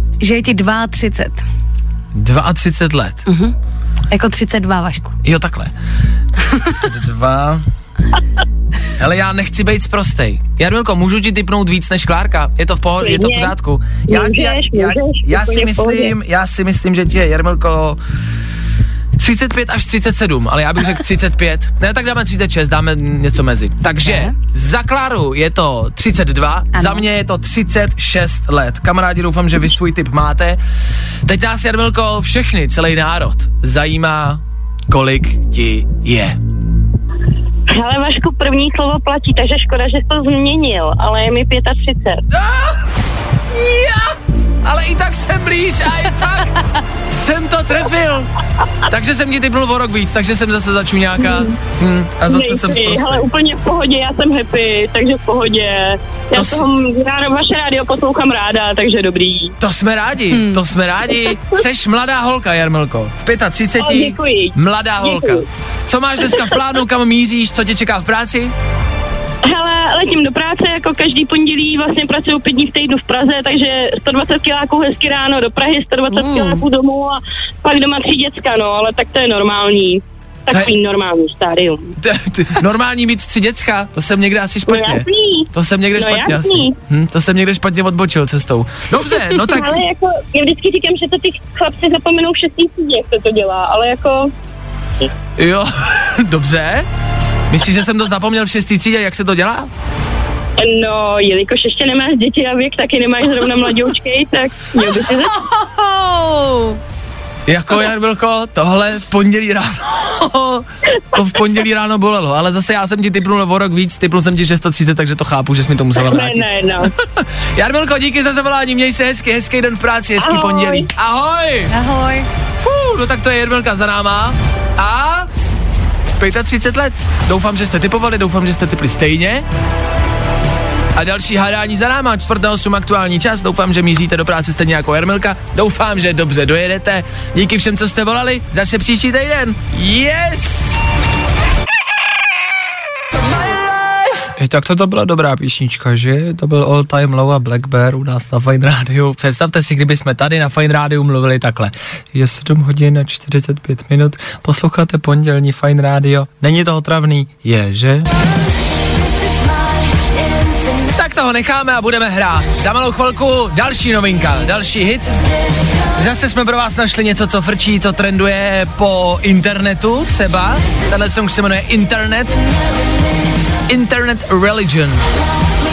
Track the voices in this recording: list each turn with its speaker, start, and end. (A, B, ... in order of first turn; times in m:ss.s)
0:00.2-0:01.4 A
0:02.1-0:03.2 B
0:03.2-0:03.5 A
0:04.1-0:05.1 A
0:05.2-0:05.7 B
0:06.5-0:07.6 B
0:09.0-0:18.0 B
0:13.0-0:13.5 C
0:14.1-0:16.1 C
0:19.2-0:30.6 B
0:24.0-0:24.3 A
0:26.7-0:27.0 A
0:31.2-0:36.4 B
0:37.7-0:42.2 C
0:42.3-0:42.8 B
0:43.5-0:48.3 B
0:48.8-0:53.2 B
0:52.3-0:59.5 C
0:56.3-0:56.6 B
0:59.6-1:08.5 B
1:00.3-1:00.6 A
1:03.8-1:05.4 C
1:09.4-1:21.9 C
1:22.0-1:29.8 B
1:24.7-1:26.7 C
1:29.1-1:34.3 C
1:35.4-1:36.9 B
1:37.5-1:39.7 B
1:40.6-1:45.3 C
1:45.5-1:46.8 A
1:47.5-2:01.7 B
1:56.0-1:56.9 C
2:00.2-2:00.9 C
2:01.7-2:02.3 A
2:02.6-2:05.3 B
2:06.2-2:09.4 B
2:10.9-2:20.8 B
2:24.4-2:38.1 B
2:40.8-2:45.1 B
2:45.9-2:52.4 B
2:53.7-2:55.0 B